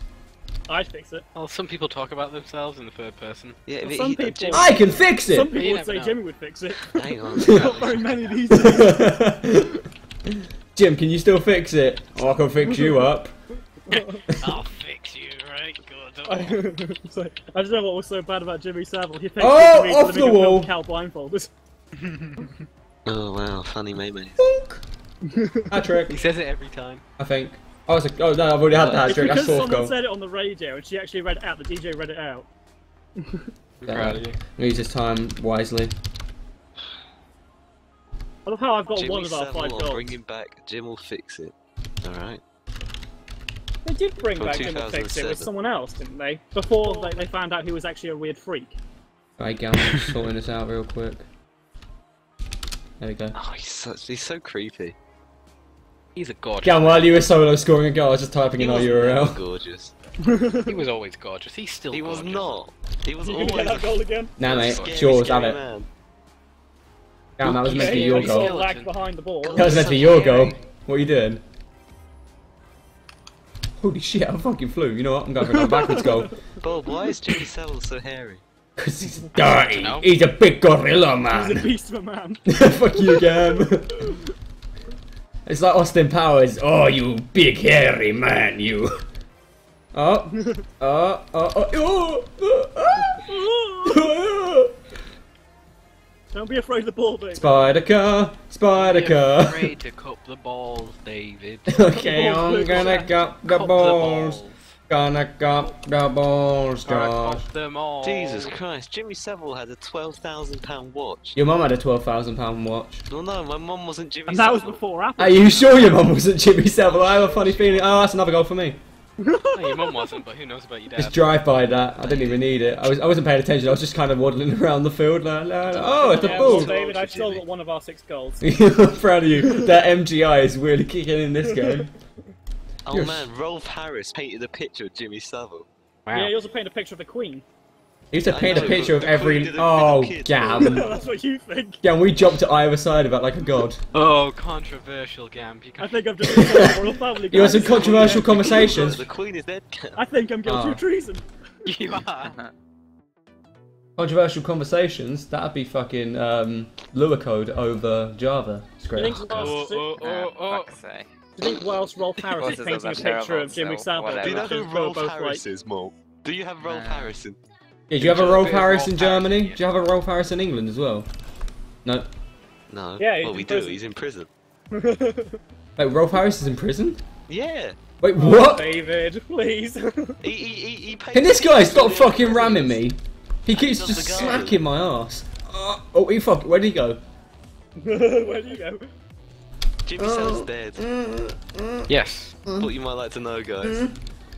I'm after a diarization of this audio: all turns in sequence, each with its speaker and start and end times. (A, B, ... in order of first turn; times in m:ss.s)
0:00.7-0:01.2 A
0:01.3-0:03.6 B
0:03.7-0:04.8 C
0:03.8-0:09.1 A
0:04.5-0:05.6 D
0:05.5-0:06.2 B
0:06.9-0:08.2 C
0:08.5-0:09.8 D
0:10.8-0:13.3 D
0:13.9-0:14.2 A
0:13.9-0:16.6 B
0:16.3-0:21.5 A
0:19.4-0:20.7 D
0:22.1-0:22.5 A
0:23.0-0:24.4 C
0:24.4-0:24.8 D
0:25.3-0:25.8 A
0:25.7-0:26.2 D
0:26.1-0:27.0 B
0:27.2-0:30.0 D
0:28.7-0:29.6 C
0:29.1-0:32.5 A
0:33.2-0:33.5 A
0:33.8-0:34.4 B
0:33.8-0:35.9 D
0:38.5-0:40.1 A
0:38.9-0:42.4 C
0:43.8-0:48.8 A
0:44.4-0:45.5 C
0:49.4-0:51.3 D
0:53.0-0:53.4 D
0:53.3-0:55.0 C
0:56.2-0:57.1 B
0:56.6-0:59.4 D
0:58.6-0:59.9 C
1:00.2-1:00.9 A
1:00.7-1:02.7 B
1:01.9-1:05.9 C
1:03.2-1:04.4 A
1:04.4-1:05.6 D
1:04.6-1:05.0 B
1:07.4-1:08.6 D
1:07.4-1:08.9 B
1:07.6-1:09.7 A
1:09.4-1:10.6 C
1:09.6-1:11.4 D
1:13.8-1:16.3 D
1:15.6-1:16.3 A
1:16.6-1:18.4 C
1:18.8-1:21.7 D
1:19.7-1:20.1 B
1:21.3-1:22.5 A
1:22.5-1:24.2 D
1:23.0-1:24.1 A
1:25.5-1:29.0 D
1:29.9-1:34.8 D
1:33.1-1:34.0 A
1:36.3-1:37.7 A
1:37.4-1:39.7 D
1:38.7-1:41.8 B
1:41.7-1:47.5 D
1:41.9-1:43.1 A
1:42.7-1:44.6 B
1:46.8-1:48.5 B
1:48.0-1:51.4 C
1:51.4-1:53.0 D
1:53.1-1:54.8 C
1:54.3-1:56.0 A
1:55.2-1:58.8 D
1:57.0-1:57.8 C
1:57.3-1:57.8 B
1:59.2-2:00.2 A
1:59.5-2:01.4 B
2:01.0-2:06.8 D
2:02.0-2:02.4 B
2:05.7-2:07.4 C
2:06.0-2:08.4 A
2:08.4-2:11.9 D
2:11.5-2:11.8 A
2:12.9-2:15.7 C
2:12.9-2:13.3 D
2:16.1-2:16.4 B
2:16.1-2:17.4 A
2:18.1-2:20.9 D
2:18.3-2:21.0 C
2:20.6-2:21.8 A
2:21.8-2:23.8 D
2:23.9-2:26.8 B
2:25.8-2:28.8 A
2:26.2-2:29.0 D
2:27.4-2:30.1 C
2:30.0-2:31.2 A
2:30.4-2:30.8 D
2:31.6-2:32.4 B
2:32.2-2:32.5 E
2:34.0-2:39.6 D
2:38.9-2:40.0 A
2:39.3-2:40.7 B
2:40.0-2:41.1 E
2:41.4-2:45.4 A
2:42.4-2:44.6 E
2:44.2-2:47.4 C
2:46.6-2:47.2 E
2:47.9-2:51.1 D
2:48.0-2:49.6 B
2:52.7-2:54.3 C
2:53.0-2:53.8 A
2:54.7-2:55.4 A
2:55.8-2:57.0 D
2:57.3-2:57.8 C
2:58.0-2:58.7 D
2:58.2-3:00.2 A
3:00.2-3:02.8 C
3:01.1-3:07.0 D
3:03.5-3:04.6 C
3:07.8-3:08.9 A
3:09.8-3:10.8 C
3:10.0-3:11.9 D
3:11.9-3:12.4 B
3:12.5-3:12.7 D
3:12.5-3:13.8 C
3:13.6-3:14.0 D